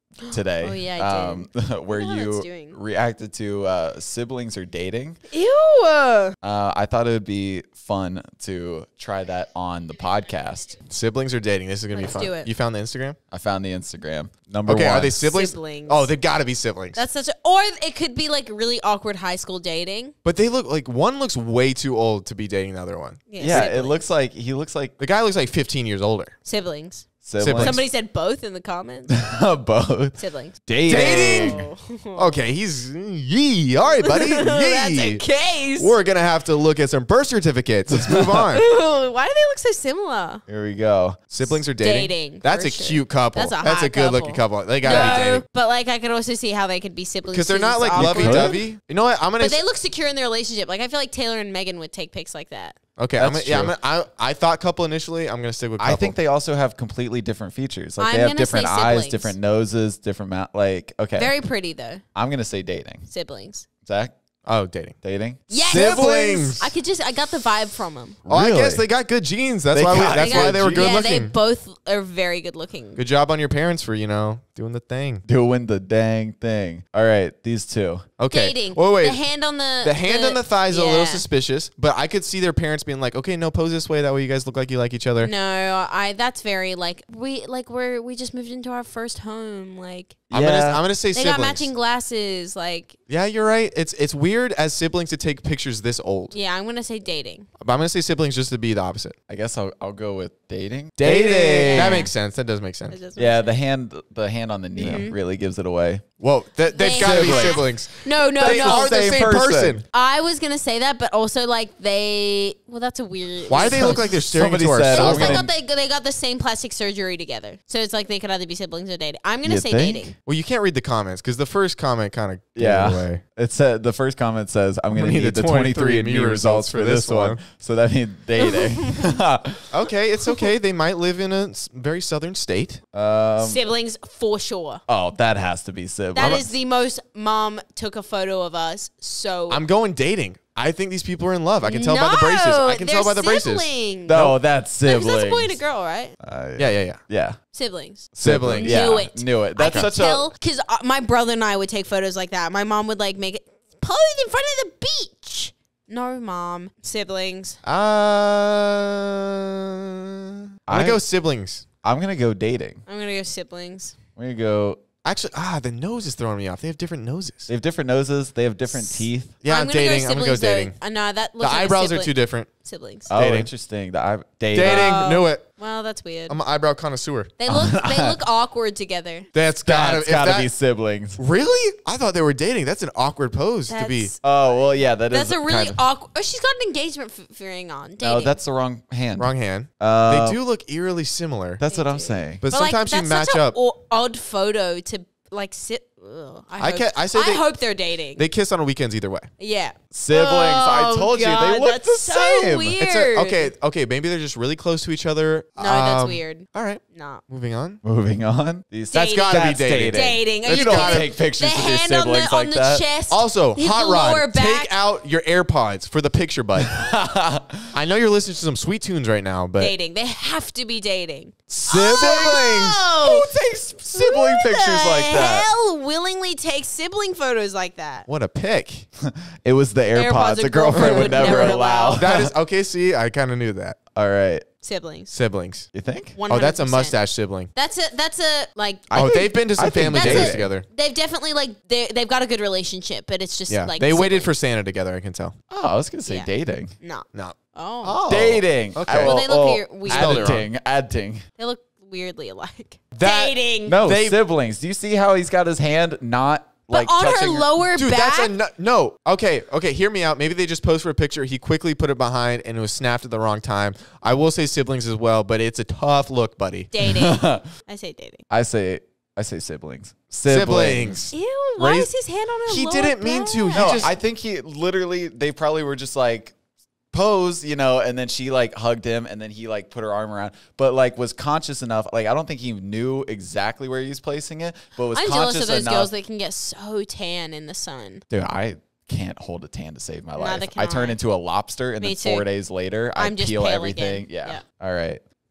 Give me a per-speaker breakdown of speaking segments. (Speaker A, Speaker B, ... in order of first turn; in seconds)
Speaker A: 0.2-2.8, 5.3-6.3, 11.9-12.5, 15.2-16.1, 16.9-20.1, 23.3-24.0, 26.4-29.1, 30.2-32.3, 34.0-35.9, 38.5-40.4, 41.4-48.6, 49.4-52.8, 58.0-59.3, 61.1-62.0, 63.1-63.6, 65.5-68.2, 70.0-73.0, 78.3-81.2, 85.2-90.3, 91.1-93.0, 96.3-97.5, 101.1-102.1, 102.9-103.5, 104.8-105.2, 106.7-120.1, 128.4-129.1, 133.4-134.8, 136.1-139.6, 141.6-146.2, 147.5-157.6, 162.9-163.9, 169.4-173.1, 174.6-176.4, 177.4-179.3, 183.7-184.2, 185.0-188.4, 191.7-198.2, 199.4-203.5, 205.6-207.2, 208.9-214.7, 219.6-223.3, 223.9-228.1, 229.9-232.1, 234.6-235.1, 236.2-237.0, 237.5-239.2, 239.8-244.3, 246.1-248.0, 248.9-250.3, 251.4-253.8, 256.7-258.3, 266.7-268.2, 271.1-273.9, 284.9-288.0, 290.1-291.0, 291.8-292.3, 293.0-294.4
Speaker B: 0.2-5.2, 6.4-10.8, 13.3-15.2, 23.4-24.9, 27.2-27.8, 29.1-31.6, 37.9-38.2, 40.5-41.2, 44.8-45.2, 47.9-48.5, 53.2-53.7, 55.8-61.3, 62.1-63.1, 63.8-64.1, 65.0-65.4, 68.2-68.8, 69.7-71.0, 75.3-78.1, 90.3-90.8, 99.3-102.1, 103.2-106.0, 107.0-107.6, 108.4-109.8, 113.6-115.5, 119.4-120.1, 122.5-129.6, 132.9-133.6, 134.9-136.5, 144.1-145.6, 146.2-147.4, 148.1-150.3, 160.7-161.0, 161.8-162.8, 164.2-164.8, 167.5-169.3, 173.1-175.0, 177.5-178.2, 179.7-181.2, 184.2-185.8, 188.0-190.4, 191.6-192.4, 199.9-202.8, 207.8-212.8, 216.7-217.7, 221.7-222.3, 223.0-225.5, 229.0-232.3, 233.9-234.4, 235.7-236.2, 238.9-240.5, 245.5-246.8, 248.1-251.2, 253.7-257.5, 266.8-267.5, 268.3-271.0, 273.5-276.3, 276.9-285.9, 288.1-295.0
Speaker C: 10.9-13.2, 14.7-17.0, 20.2-23.7, 25.0-26.4, 27.4-27.8, 30.9-38.6, 41.3-45.4, 47.3-49.6, 53.0-56.2, 64.5-65.0, 65.7-66.7, 68.3-71.3, 72.9-75.2, 78.2-79.2, 79.8-85.3, 90.3-91.7, 93.1-96.3, 97.6-99.2, 101.0-103.0, 106.2-109.8, 113.5-115.5, 120.2-123.2, 124.9-127.4, 129.7-132.8, 136.2-136.5, 139.5-144.3, 146.6-147.0, 148.2-148.8, 157.6-161.6, 165.0-167.5, 169.4-170.8, 171.4-172.5, 173.1-173.5, 174.5-175.5, 176.3-177.3, 179.3-180.5, 181.2-184.1, 189.2-191.6, 192.4-193.6, 196.6-197.5, 198.2-199.3, 202.8-207.8, 208.9-211.1, 213.1-216.9, 217.7-219.7, 221.5-222.8, 228.1-228.9, 230.8-233.8, 235.1-235.7, 236.3-237.5, 238.9-240.7, 243.5-245.3, 247.1-249.2, 249.8-250.5, 252.9-254.2, 257.7-266.7, 270.3-271.9, 272.5-273.9